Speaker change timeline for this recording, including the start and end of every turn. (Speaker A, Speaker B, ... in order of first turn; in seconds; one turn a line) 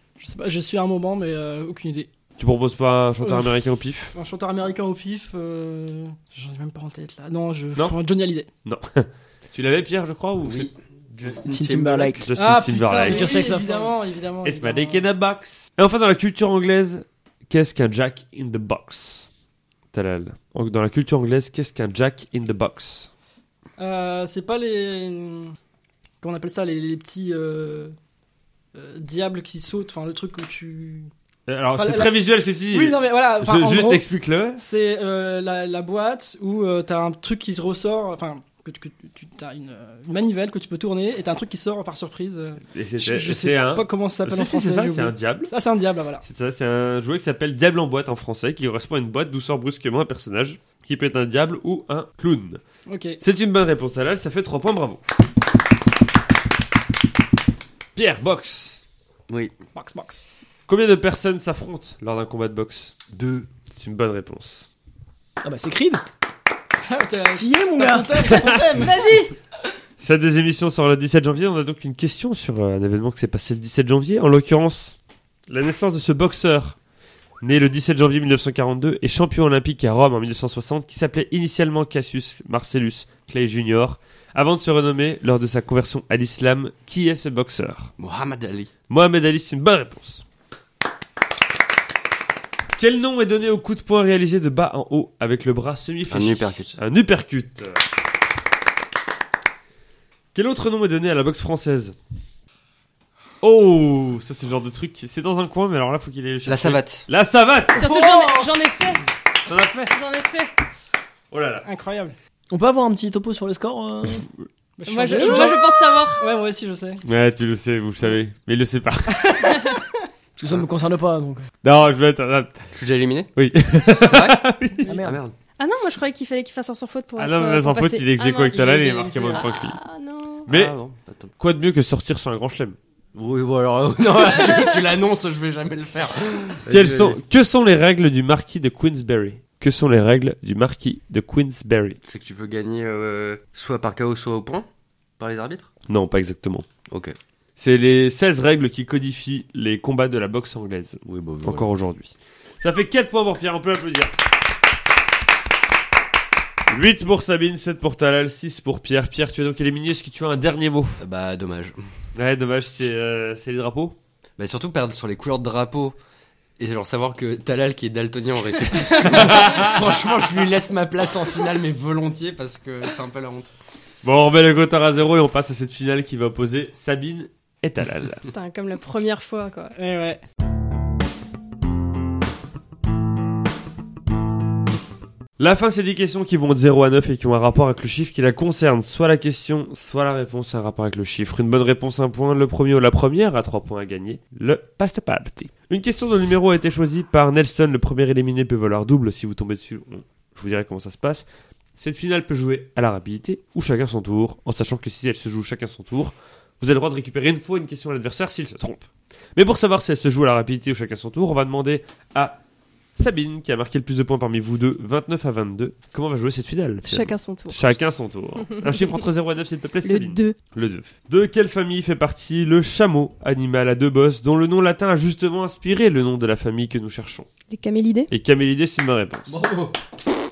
Speaker A: 0.2-2.1
Speaker B: 2.4-4.1
Speaker A: 3.2-3.6
Speaker A: 4.1-8.5
Speaker B: 8.7-10.7
Speaker C: 10.4-12.3
Speaker D: 11.5-12.3
Speaker B: 12.2-13.3
Speaker A: 12.4-15.1
Speaker D: 13.0-13.9
Speaker B: 14.4-19.3
Speaker B: 19.9-23.1
Speaker A: 23.8-25.6
Speaker A: 26.2-27.9
Speaker A: 28.7-31.1
Speaker B: 31.5-34.6
Speaker A: 31.8-32.2
Speaker A: 32.7-34.0
Speaker A: 34.6-46.2
Speaker B: 42.7-45.5
Speaker B: 46.2-52.6
Speaker A: 52.9-53.2
Speaker B: 53.2-55.2
Speaker B: 58.0-58.8
Speaker A: 59.8-60.3
Speaker B: 60.7-63.0
Speaker C: 63.1-63.5
Speaker B: 63.7-64.7
Speaker D: 65.4-66.0
Speaker A: 66.8-69.1
Speaker D: 67.3-68.4
Speaker B: 68.2-68.9
Speaker E: 68.8-69.3
Speaker B: 70.0-75.0
Speaker B: 75.5-76.8
Speaker B: 77.4-87.9
Speaker C: 88.0-88.7
Speaker B: 88.9-90.2
Speaker B: 92.8-97.8
Speaker C: 96.1-96.8
Speaker B: 100.3-102.0
Speaker B: 103.4-107.9
Speaker C: 106.5-107.1
Speaker E: 107.7-109.0
Speaker D: 107.8-108.5
Speaker B: 109.5-109.9
Speaker E: 109.9-110.5
Speaker B: 111.3-111.7
Speaker A: 111.6-112.2
Speaker D: 112.5-114.3
Speaker A: 114.8-117.0
Speaker E: 114.9-116.2
Speaker B: 117.0-119.6
Speaker D: 120.4-121.5
Speaker B: 121.6-122.7
Speaker C: 122.7-123.3
Speaker B: 123.4-125.0
Speaker C: 124.0-124.5
Speaker D: 124.8-125.2
Speaker C: 125.0-125.4
Speaker E: 125.6-130.5
Speaker B: 127.2-129.8
Speaker B: 130.5-130.8
Speaker C: 130.5-131.3
Speaker B: 131.4-132.8
Speaker C: 133.2-137.2
Speaker E: 134.2-134.8
Speaker B: 136.7-142.0
Speaker C: 142.0-144.7
Speaker C: 145.2-145.7
Speaker B: 145.9-146.7
Speaker C: 146.9-147.2
Speaker B: 147.6-154.1
Speaker C: 151.1-151.7
Speaker B: 156.7-161.0
Speaker C: 161.0-161.8
Speaker B: 162.2-164.0
Speaker C: 164.4-166.0
Speaker C: 166.6-173.5
Speaker B: 169.1-170.0
Speaker B: 174.0-178.2
Speaker E: 178.3-179.7
Speaker A: 179.8-180.2
Speaker B: 185.4-201.2
Speaker B: 201.8-208.8
Speaker B: 209.4-212.4
Speaker B: 213.0-227.3
Speaker E: 216.8-217.8
Speaker E: 218.5-218.9
Speaker E: 219.8-220.4
Speaker E: 227.5-228.1
Speaker B: 228.1-229.4
Speaker C: 229.3-229.8